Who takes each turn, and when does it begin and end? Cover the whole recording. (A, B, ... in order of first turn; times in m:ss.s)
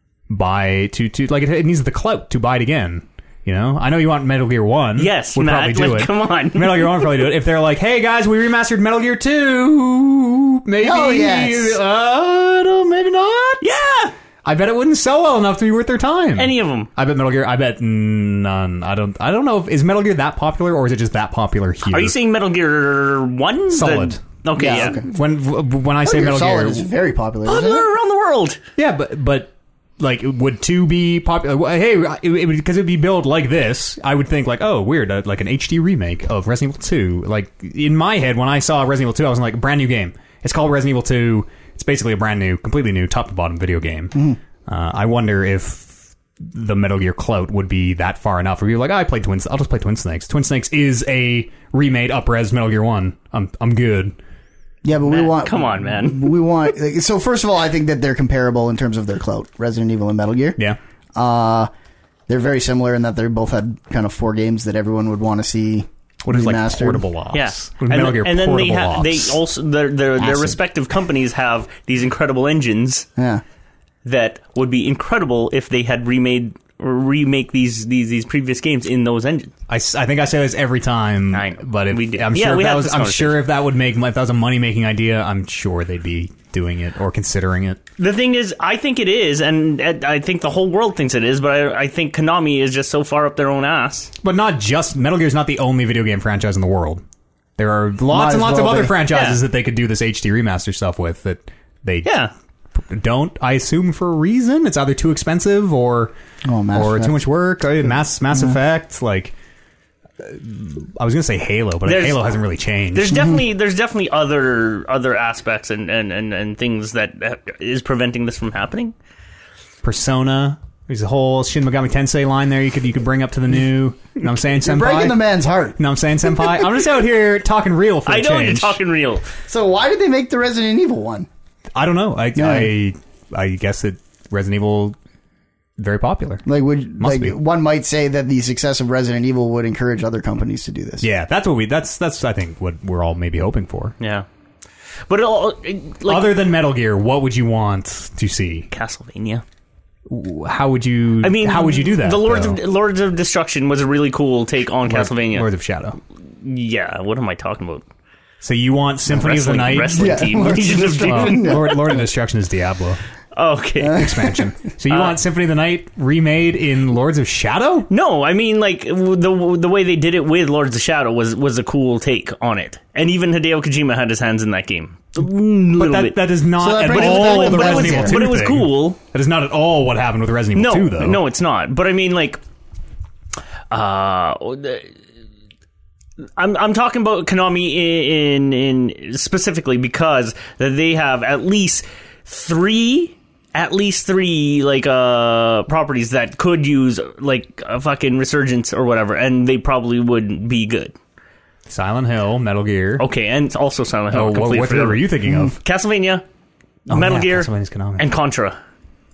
0:00.3-0:13.6 A
0:05.0-0:07.2 B
0:10.8-0:11.8 C
0:13.6-0:14.1 B
0:14.4-0:22.2 A
0:16.4-0:16.9 B
0:21.9-0:25.1 B
0:23.7-0:26.9 A
0:24.6-0:25.0 C
0:26.0-0:27.9 C
0:27.4-0:28.6 B
0:28.8-0:54.2 A
0:54.8-1:00.6 C
0:55.1-0:56.4 B
1:01.2-1:01.7 C
1:02.3-1:07.0 C
1:06.2-1:09.4 A
1:07.3-1:13.1 B
1:10.2-1:10.6 C
1:13.2-1:13.4 C
1:14.0-1:19.5 B
1:19.7-1:27.8 A
1:21.3-1:23.4 B
1:28.0-1:34.1 B
1:34.2-1:37.0 A
1:37.6-1:42.1 A
1:38.1-1:39.0 C
1:39.1-1:39.4 B
1:42.0-1:42.3 B
1:42.8-1:46.1 A
1:46.4-1:47.2 C
1:46.7-1:49.3 A
1:50.2-1:53.3 A
1:51.8-1:52.3 B
1:52.9-1:58.9 B
1:59.8-2:05.2 A
2:04.6-2:05.8 C
2:05.8-2:08.8 A
2:08.1-2:09.3 B
2:09.5-2:11.3 C
2:11.8-2:15.0 A
2:12.4-2:12.7 C
2:15.8-2:16.4 A
2:16.5-2:21.1 C
2:17.0-2:17.4 A
2:21.0-2:24.0 A
2:24.0-2:24.3 B
2:25.1-2:26.4 B
2:26.1-2:28.7 A
2:28.7-2:29.4 B
2:30.1-2:32.6 A
2:31.2-2:35.5 B
2:34.8-2:36.0 A
2:36.2-2:37.8 B
2:38.4-2:40.2 A
2:39.1-2:41.8 B
2:39.9-2:41.9 C
2:41.1-2:43.0 A
2:43.3-2:44.1 B
2:43.9-2:47.9 A
2:44.9-2:45.2 B
2:47.9-2:59.0 B
2:55.8-3:01.2 A
2:56.6-2:58.2 C
3:00.6-3:02.4 B
3:03.7-3:04.9 B
3:06.4-3:21.0 B
3:21.7-3:23.0 A
3:23.0-3:26.2 B
3:24.1-3:25.6 A
3:26.9-3:28.6 B
3:26.9-3:28.0 A